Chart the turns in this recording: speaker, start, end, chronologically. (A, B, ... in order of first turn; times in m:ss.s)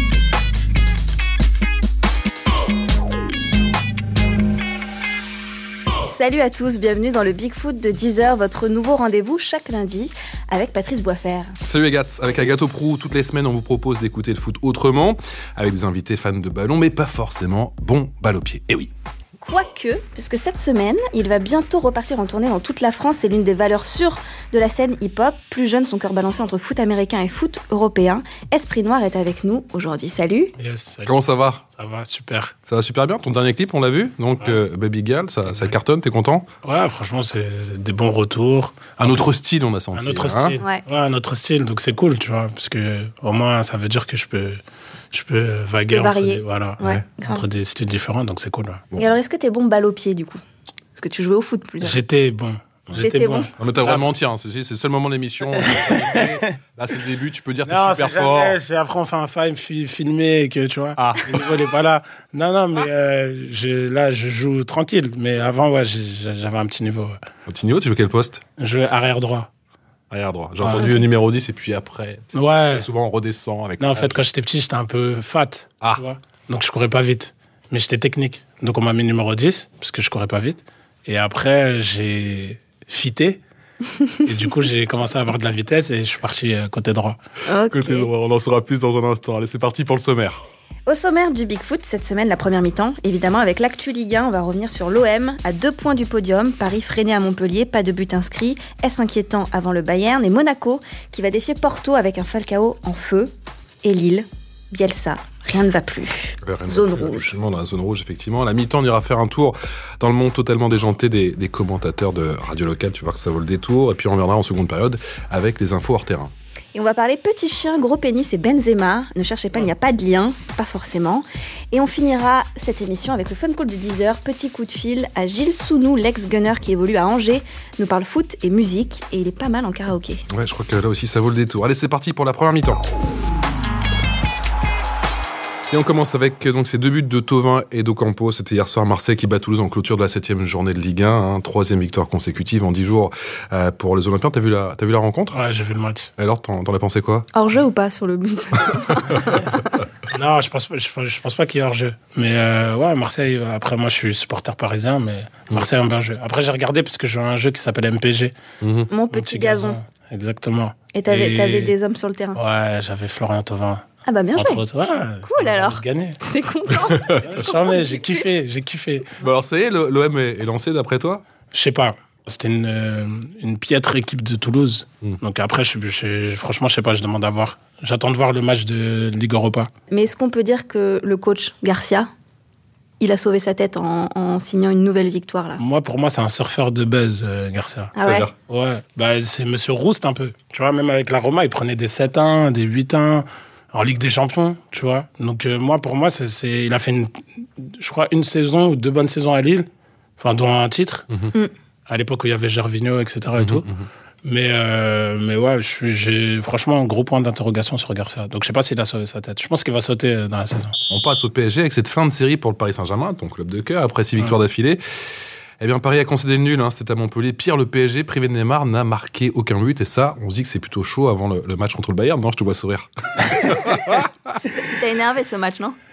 0:06.0-0:11.6 A
0:11.6-0:18.7 B
0:19.4-0:30.5 A
0:30.6-0:31.1 C
0:31.0-0:31.6 B
0:31.7-0:32.5 C
0:32.6-0:36.5 B
0:36.6-0:39.3 C
0:39.0-0:40.6 B
0:39.9-0:44.6 C
0:45.1-0:48.8 C
0:45.9-0:47.4 A
0:49.0-0:50.4 A
0:51.0-0:52.0 A
0:51.8-0:54.1 C
0:53.0-0:53.5 A
0:53.6-0:58.6 B
0:55.6-0:56.5 C
0:57.6-1:07.2 C
1:01.0-1:01.6 B
1:07.5-1:08.4 B
1:08.6-1:09.5 C
1:10.1-1:14.2 B
1:10.6-1:10.9 C
1:12.3-1:12.9 C
1:13.8-1:23.4 C
1:24.2-1:27.2 C
1:27.4-1:28.1 A
1:27.7-1:30.4 B
1:30.9-1:43.3 A
1:43.8-1:47.3 A
1:46.4-1:56.3 B
1:56.7-2:10.2 A
2:10.3-2:12.8 B
2:15.7-2:25.4 B
2:25.3-2:26.1 C
2:26.2-2:27.3 B
2:27.3-2:29.2 A
2:30.1-2:38.3 C
2:38.6-2:38.9 B
2:38.9-2:39.8 A
2:39.1-2:41.7 C
2:40.9-2:42.4 A
2:42.3-2:43.8 C
2:44.0-2:44.6 A
2:44.3-2:46.2 C
2:45.2-2:48.2 A
2:46.9-2:47.3 B
2:47.2-2:49.1 C
2:49.2-2:51.2 B
2:51.5-2:59.7 C
2:59.9-3:02.1 A
3:03.0-3:05.6 A
3:05.6-3:21.1 C
3:08.0-3:08.3 A
3:08.0-3:08.3 B
3:21.9-3:23.7 C
3:23.4-3:23.9 B
3:24.2-3:30.8 C
3:30.9-3:34.8 B
3:35.6-3:44.4 B
3:44.6-3:45.8 A